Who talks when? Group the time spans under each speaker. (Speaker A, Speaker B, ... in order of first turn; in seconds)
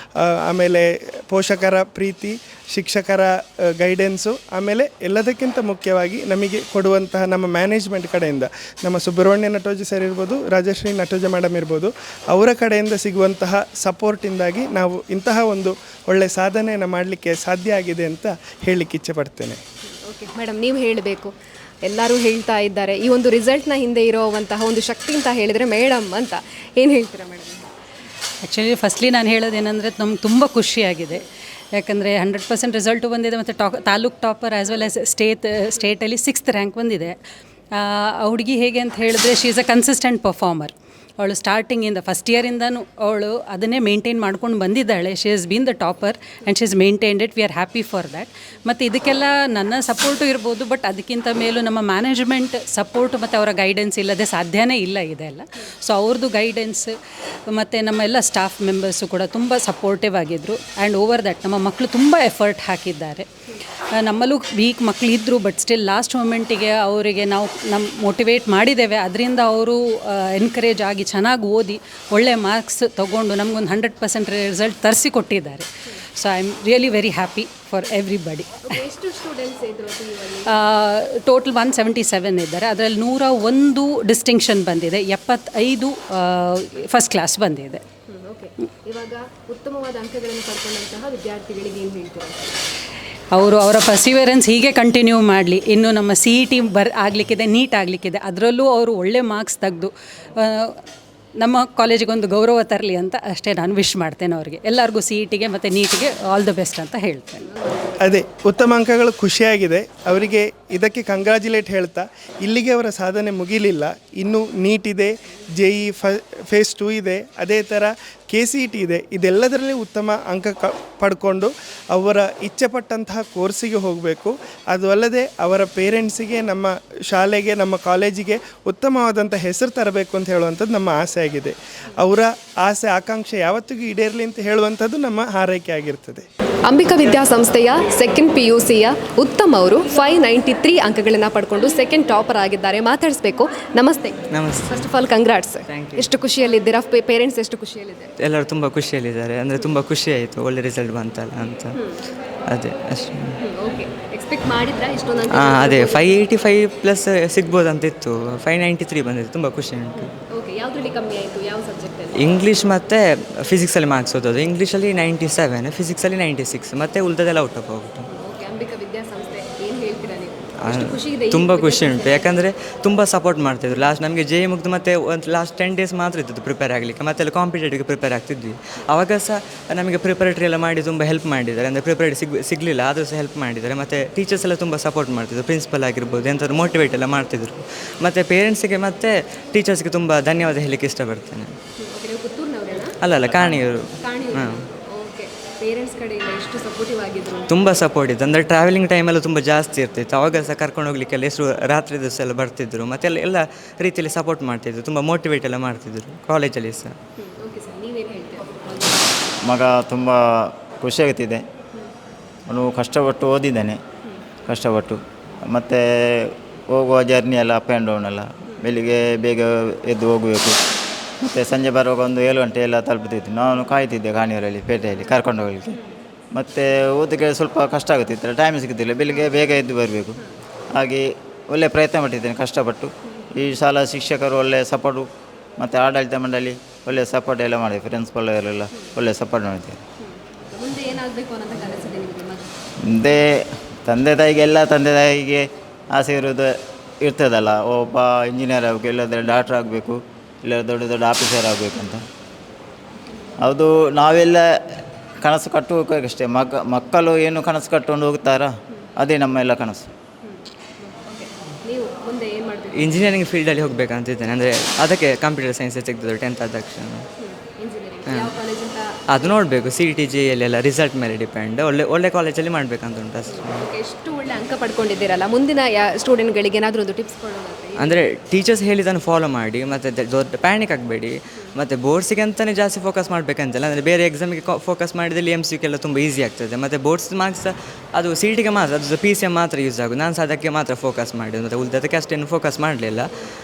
Speaker A: 0.2-19.6, 108.0-136.2
Speaker B: 20.1-21.3, 21.8-27.6, 78.7-80.5, 88.1-92.5, 136.7-148.1, 153.4-156.2, 160.3-162.2, 168.1-172.4, 191.8-197.5, 207.2-209.2, 240.0-242.5, 260.3-263.1, 267.2-269.3, 273.2-278.0
Speaker C: 28.4-37.2, 37.7-56.9, 57.5-63.3, 63.9-78.7, 80.5-87.8, 93.3-100.8, 101.4-107.5
Speaker D: 144.3-144.9, 145.7-146.1, 148.2-151.8, 152.5-153.4, 155.3-160.1, 162.2-168.1, 170.6-191.5, 193.0-194.6, 197.5-206.9, 262.7-267.0, 269.1-273.6, 277.8-293.1
Speaker E: 209.4-211.4, 212.5-213.8, 214.5-220.6, 221.2-225.8, 226.3-230.2, 230.7-239.8, 242.8-252.0, 253.4-259.9